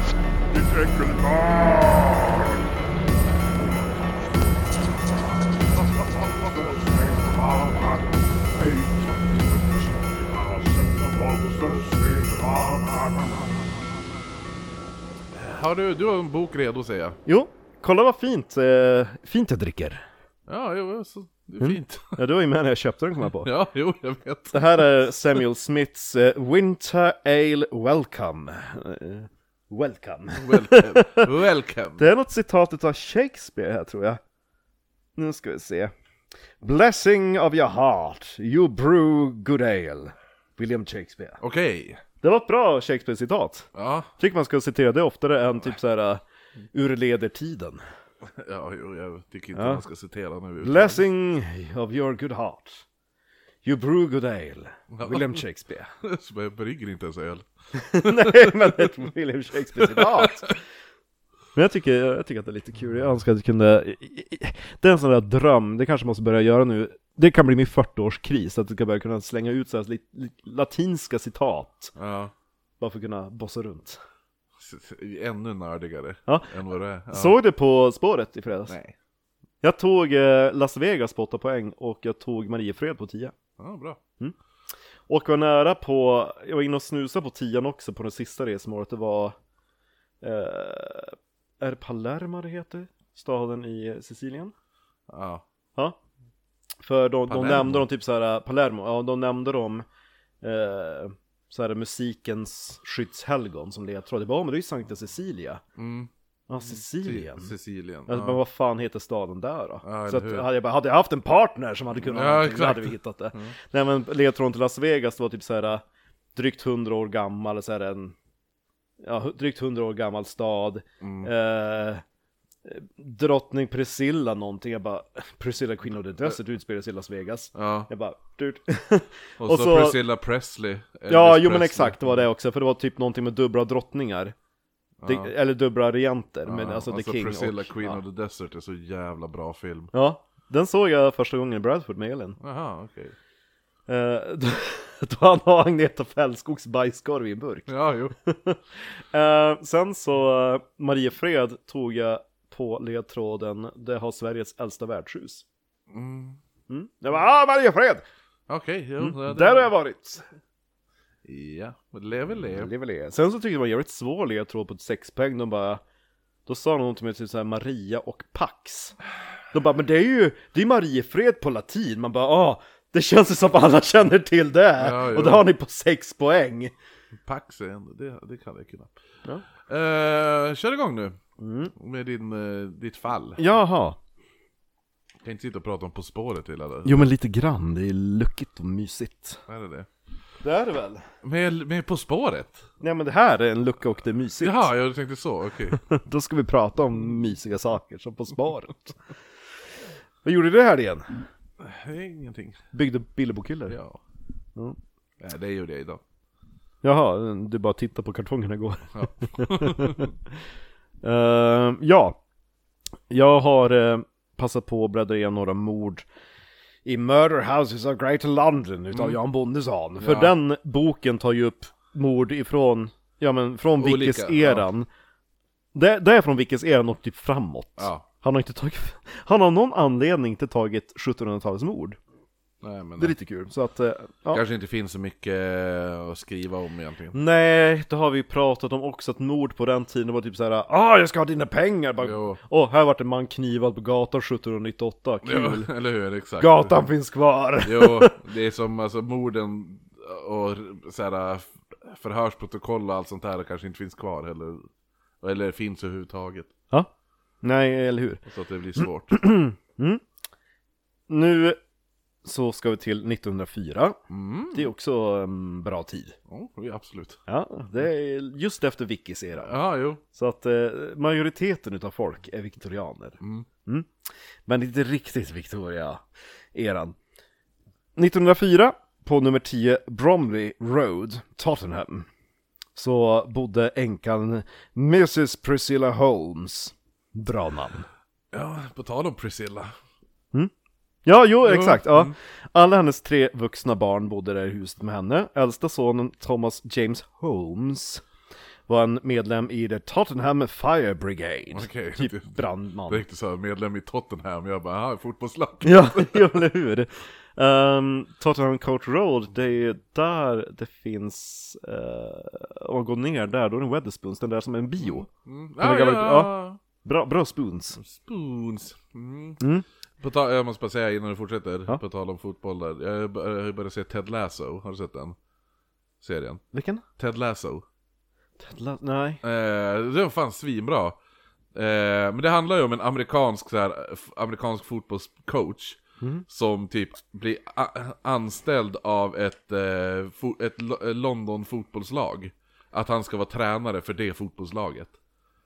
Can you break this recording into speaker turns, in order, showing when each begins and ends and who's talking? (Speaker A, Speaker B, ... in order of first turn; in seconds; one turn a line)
Speaker A: 0.5-2.7
Speaker A: 3.5-4.5
Speaker A: 5.6-13.6
Speaker B: 15.3-17.2
Speaker C: 17.2-20.0
Speaker B: 20.5-22.2
Speaker C: 21.6-23.5
Speaker B: 23.4-24.9
Speaker C: 24.5-31.3
Speaker B: 30.4-32.0
Speaker C: 32.0-34.2
Speaker C: 35.1-35.9
Speaker C: 36.6-41.4
Speaker B: 41.4-42.0
Speaker C: 42.2-46.2
Speaker B: 43.7-44.1
Speaker C: 46.7-47.8
Speaker B: 48.2-51.0
Speaker C: 49.5-49.8
Speaker C: 50.6-52.8
Speaker C: 53.6-55.9
Speaker B: 54.9-55.4
Speaker B: 56.0-59.1
Speaker C: 57.7-60.6
Speaker B: 59.7-60.5
Speaker C: 61.5-71.9
Speaker B: 72.0-72.3
Speaker C: 72.8-74.0
Speaker B: 74.5-77.3
Speaker C: 77.1-78.7
Speaker B: 78.7-78.9
Speaker C: 79.6-83.3
Speaker B: 83.6-84.0
Speaker C: 85.1-89.3
Speaker C: 90.2-94.5
Speaker B: 95.1-95.4
Speaker C: 96.8-99.8
Speaker B: 97.3-97.8
Speaker C: 100.4-105.6
Speaker B: 105.8-106.1
Speaker C: 106.5-107.5
Speaker B: 106.7-108.4
Speaker C: 108.1-115.8
Speaker B: 109.8-110.5
Speaker B: 112.0-113.5
Speaker C: 116.3-118.1
Speaker C: 119.0-122.0
Speaker B: 121.0-121.3
Speaker C: 122.6-130.0
Speaker B: 127.5-127.9
Speaker B: 129.4-132.2
Speaker C: 131.1-134.3
Speaker B: 135.0-135.3
Speaker C: 135.0-138.0
Speaker B: 136.5-139.9
Speaker C: 139.9-142.4
Speaker B: 142.4-143.1
Speaker C: 143.9-147.7
Speaker B: 147.7-148.1
Speaker C: 148.2-155.4
Speaker B: 155.9-156.4
Speaker C: 156.7-158.0
Speaker B: 158.5-159.7
Speaker C: 159.0-160.2
Speaker B: 161.2-162.7
Speaker C: 162.5-165.8
Speaker C: 166.4-169.0
Speaker C: 169.5-176.7
Speaker B: 174.8-175.5
Speaker B: 177.2-178.9
Speaker B: 179.7-181.2
Speaker C: 181.4-181.7
Speaker B: 181.8-183.4
Speaker C: 183.4-184.0
Speaker B: 185.2-187.1
Speaker C: 186.8-189.4
Speaker B: 189.5-189.9
Speaker C: 190.4-191.1
Speaker B: 191.2-192.6
Speaker C: 192.8-194.7
Speaker B: 194.4-195.8
Speaker C: 195.7-199.0
Speaker C: 200.2-201.2
Speaker B: 201.6-202.6
Speaker C: 202.7-203.8
Speaker B: 203.7-204.0
Speaker B: 205.2-206.0
Speaker C: 206.8-210.1
Speaker B: 208.9-210.1
Speaker C: 211.0-212.2
Speaker C: 213.1-216.0
Speaker C: 216.8-224.9
Speaker B: 218.9-219.2
Speaker B: 220.0-220.3
Speaker B: 223.8-224.7
Speaker C: 225.7-232.0
Speaker B: 227.8-228.0
Speaker B: 232.6-233.1
Speaker C: 233.0-234.4
Speaker B: 234.3-237.1
Speaker C: 237.1-245.7
Speaker B: 242.0-242.4
Speaker B: 245.2-246.8
Speaker C: 246.4-248.2
Speaker B: 247.6-254.7
Speaker B: 255.2-256.5
Speaker C: 257.4-258.2
Speaker B: 258.2-259.2
Speaker C: 258.8-260.0
Speaker C: 261.1-261.6
Speaker C: 262.2-264.0
Speaker B: 264.1-264.7
Speaker C: 264.5-266.1
Speaker B: 266.3-267.2
Speaker C: 267.3-273.9
Speaker B: 269.4-270.0
Speaker B: 273.2-273.5
Speaker C: 274.5-277.0
Speaker C: 277.9-282.1
Speaker C: 282.7-287.9
Speaker B: 288.3-289.7
Speaker C: 291.1-298.0
Speaker B: 291.4-292.1
Speaker C: 298.7-303.0
Speaker B: 301.5-302.3
Speaker B: 302.9-306.3
Speaker C: 305.6-315.1
Speaker B: 314.8-316.6
Speaker C: 315.6-317.8
Speaker B: 317.8-319.4
Speaker C: 319.4-319.6
Speaker B: 320.0-325.1
Speaker B: 326.0-326.4
Speaker C: 326.5-326.8
Speaker B: 327.0-327.6
Speaker C: 328.4-329.2
Speaker B: 329.2-331.0
Speaker B: 331.5-344.9